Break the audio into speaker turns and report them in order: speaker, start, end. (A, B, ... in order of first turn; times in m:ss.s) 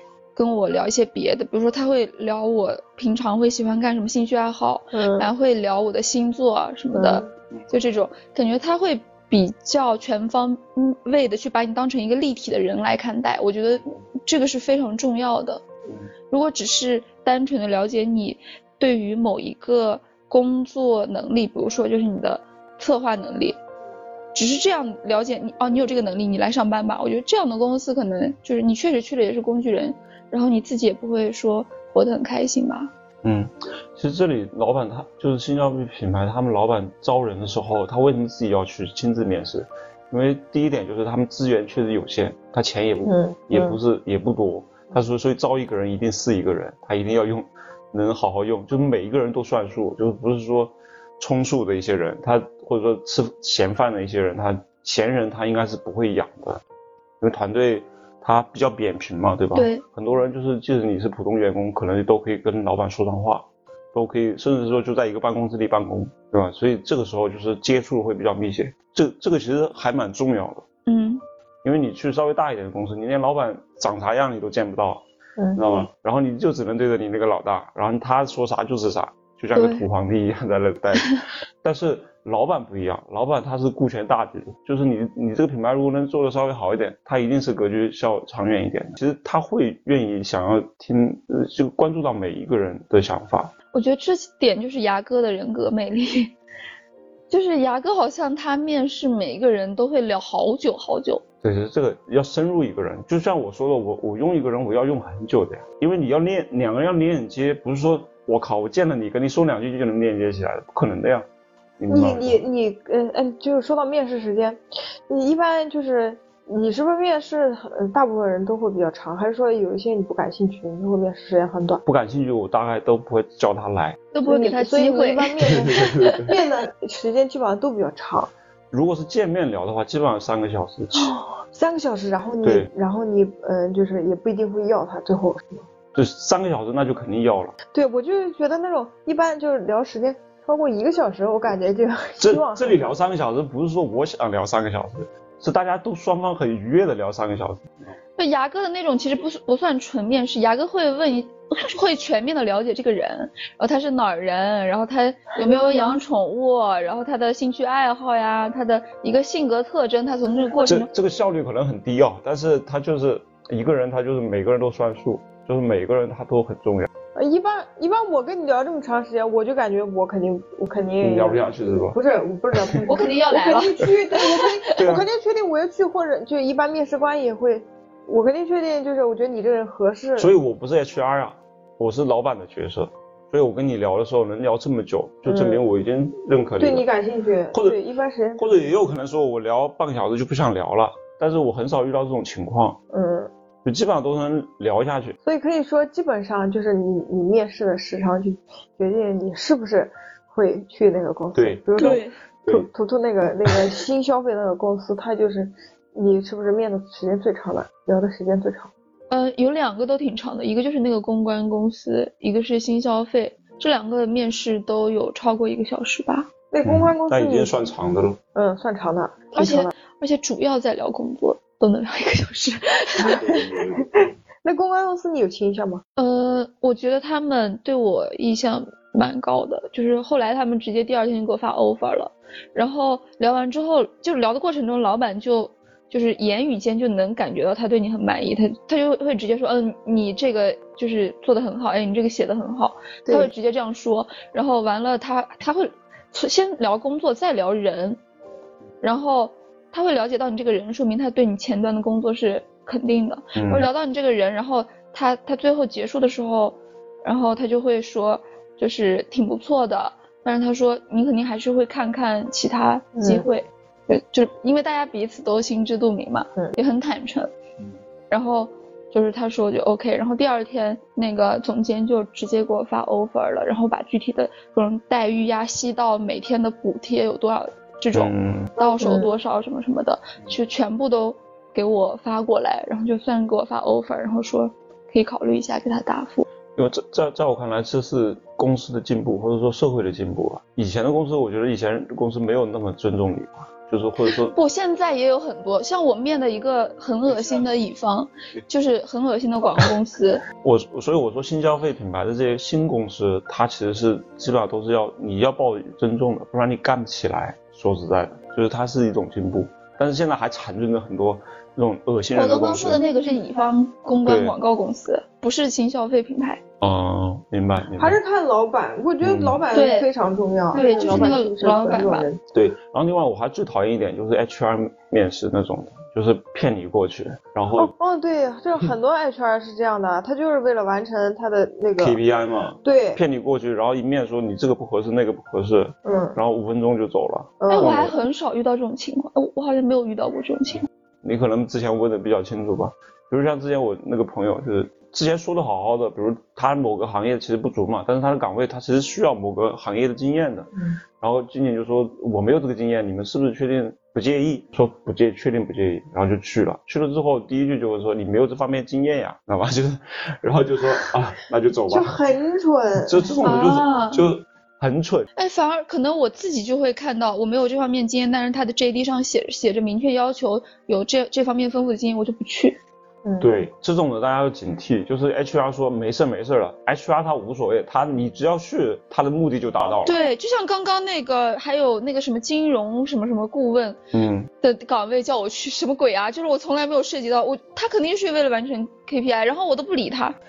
0:00.4-0:15.6 A
0:04.9-0:05.3 B
0:06.9-0:07.3 B
0:16.3-0:23.6 A
0:24.3-0:32.9 A
0:33.2-0:56.6 C
0:43.0-0:43.8 B
0:57.2-1:10.6 C
0:59.5-0:59.8 A
1:10.9-1:11.2 A
1:11.6-1:15.0 C
1:15.4-1:15.6 B
1:15.6-1:33.5 C
1:19.6-1:19.8 A
1:33.7-1:36.3 A
1:37.3-1:41.2 A
1:41.4-1:51.3 C
1:51.8-1:52.4 C
1:51.9-2:01.8 B
2:01.8-2:04.0 C
2:04.1-2:06.2 A
2:04.3-2:08.3 B
2:05.6-2:06.4 C
2:08.7-2:11.1 C
2:11.0-2:15.7 B
2:12.4-2:12.7 C
2:15.9-2:17.6 C
2:17.7-2:22.8 B
2:22.2-2:27.6 C
2:28.2-2:40.9 A
2:40.7-2:46.9 C
2:47.2-3:00.3 B
2:51.0-2:52.0 C
2:52.5-2:52.8 C
2:52.8-2:54.8 A
2:54.8-2:55.1 C
3:00.2-3:06.9 C
3:05.3-3:05.6 B
3:06.6-3:08.6 B
3:07.5-3:07.8 C
3:08.4-3:12.8 C
3:12.9-3:13.3 B
3:13.6-3:15.2 C
3:15.2-3:28.7 B
3:21.3-3:22.7 C
3:21.8-3:22.1 A
3:29.1-3:36.3 A
3:36.5-3:37.5 B
3:36.6-3:38.2 C
3:38.4-3:39.7 B
3:39.4-3:43.2 A
3:43.0-3:45.8 B
3:43.1-3:44.0 C
3:46.0-4:08.0 A
4:03.1-4:03.3 B
4:08.8-4:27.3 A
4:13.4-4:13.7 C
4:23.0-4:23.3 B
4:28.1-4:46.2 A
4:37.9-4:38.5 C
4:38.6-4:39.1 B
4:46.6-4:54.4 C
4:54.3-5:00.2 A
5:00.4-5:12.8 C
5:12.1-5:16.4 A
5:14.0-5:14.4 C
5:16.6-5:18.0 C
5:17.8-5:22.2 B
5:19.0-5:19.4 C
5:19.5-5:19.9 A
5:20.5-5:22.1 A
5:20.9-5:21.2 C
5:22.3-5:27.7 C
5:27.6-5:32.0 B
5:31.8-5:37.9 C
5:32.6-5:33.0 B
5:35.8-5:36.2 B
5:37.4-5:37.9 B
5:37.5-5:40.6 A
5:41.0-6:01.9 C
6:01.7-6:03.1 B
6:02.8-6:05.1 C
6:03.2-6:04.0 A
6:05.2-6:12.6 A
6:13.0-6:13.3 B
6:13.2-6:20.0 C
6:19.9-6:23.8 A
6:23.9-6:24.3 C
6:24.4-6:30.2 A